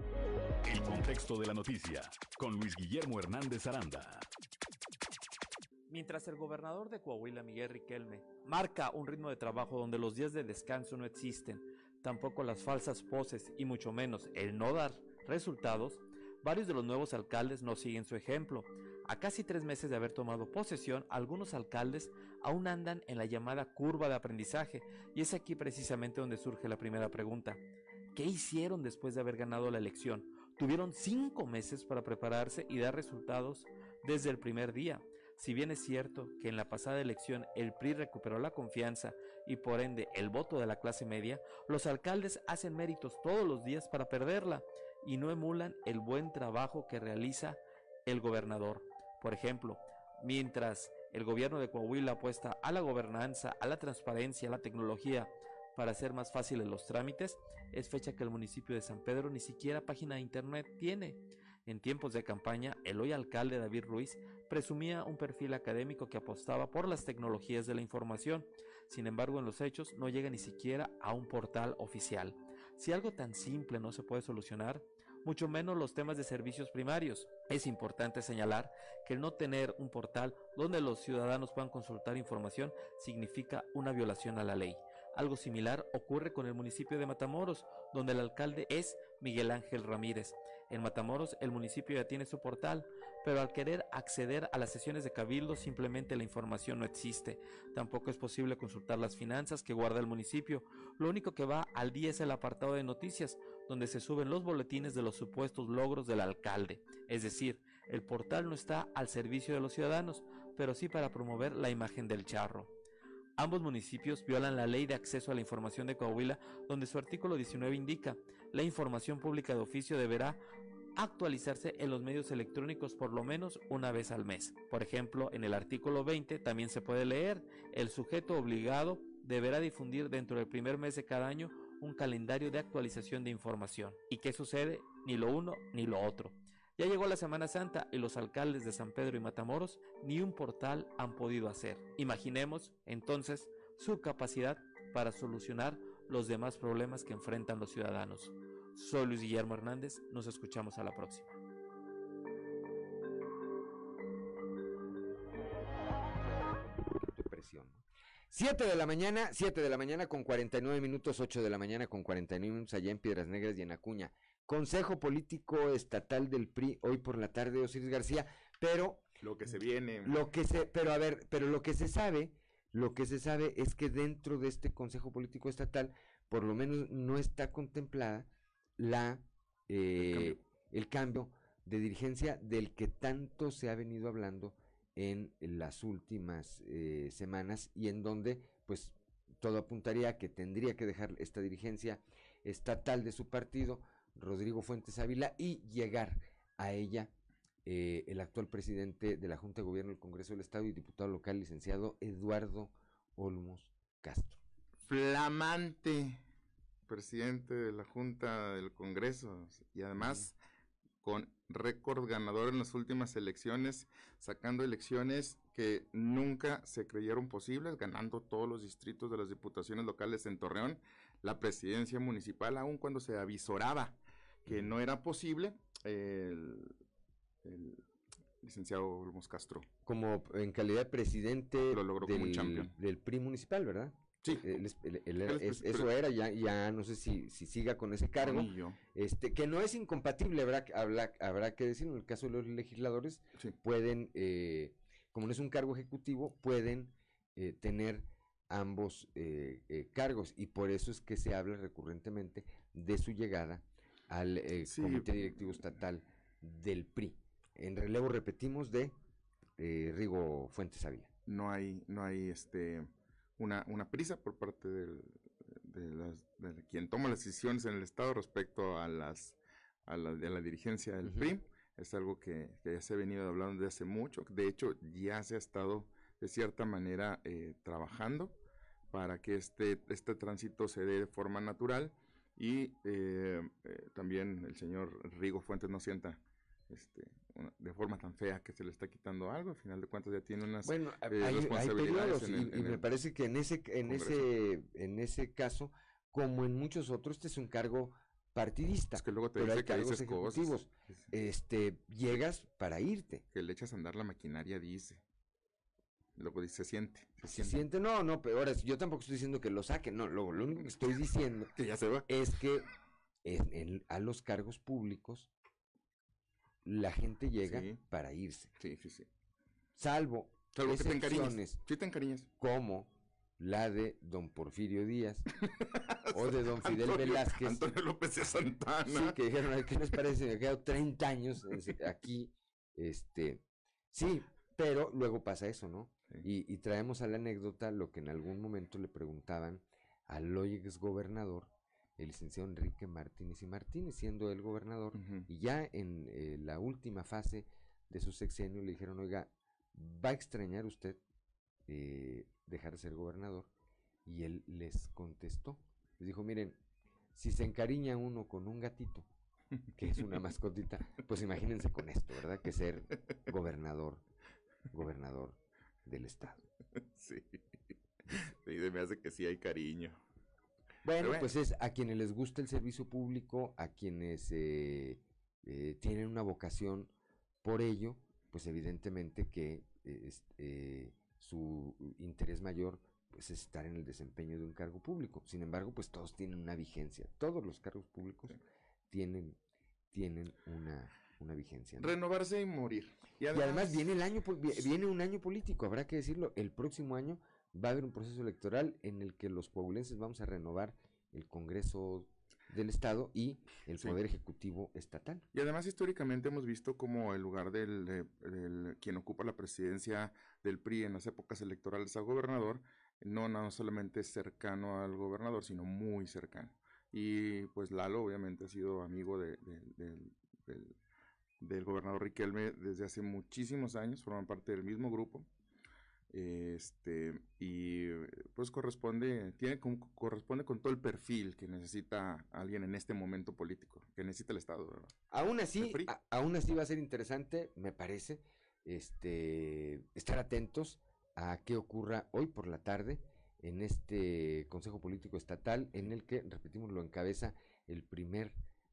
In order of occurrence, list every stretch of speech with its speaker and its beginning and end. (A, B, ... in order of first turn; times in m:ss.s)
0:00.6-0:04.2 A
0:05.9-0:27.6 B
0:28.1-1:52.7 B
1:53.4-2:00.4 B
2:01.0-2:31.3 B
2:36.6-2:49.0 C
2:49.2-2:50.2 D
2:50.0-2:58.3 C
2:58.8-3:17.1 C
3:00.0-3:00.4 D
3:17.6-3:24.4 C
3:24.8-3:26.2 D
3:26.9-3:30.3 D
3:31.0-3:46.7 D
3:47.4-3:47.8 D
3:48.4-3:49.7 D
3:49.8-4:18.9 C
3:51.7-3:52.7 D
3:55.2-3:55.9 D
3:58.2-3:58.8 D
4:14.6-4:15.1 D
4:19.6-4:21.1 C
4:21.3-4:38.4 D
4:31.1-4:31.3 C
4:38.9-4:52.8 D
4:50.6-5:03.2 C
4:53.9-4:54.2 D
4:58.9-5:01.0 D
5:03.3-5:05.0 D
5:06.2-5:07.6 D
5:07.2-5:11.5 C
5:11.6-5:12.0 D
5:12.0-5:12.6 C
5:13.2-5:15.3 C
5:16.6-5:18.5 C
5:17.4-5:17.8 D
5:18.6-5:19.1 D
5:19.8-5:21.6 C
5:20.5-5:22.3 D
5:22.4-5:25.2 C
5:26.1-5:29.1 D
5:26.1-5:27.6 C
5:28.9-5:51.0 C
5:44.9-5:45.2 D
5:51.7-5:53.5 C
5:54.0-5:56.6 C
5:57.1-5:59.0 C
5:59.8-6:04.0 C
6:04.7-6:06.4 C
6:06.9-6:07.4 D
6:08.1-6:10.0 D
6:10.8-6:16.9 C
6:11.0-6:11.3 D
6:17.4-6:28.3 C
6:28.9-6:29.4 C
6:29.9-6:31.9 C
6:31.8-6:33.8 D
6:33.3-6:45.2 C
6:45.3-7:00.7 D
7:01.4-7:05.3 D
7:06.1-7:14.9 D
7:15.1-7:28.4 C
7:15.6-7:15.9 D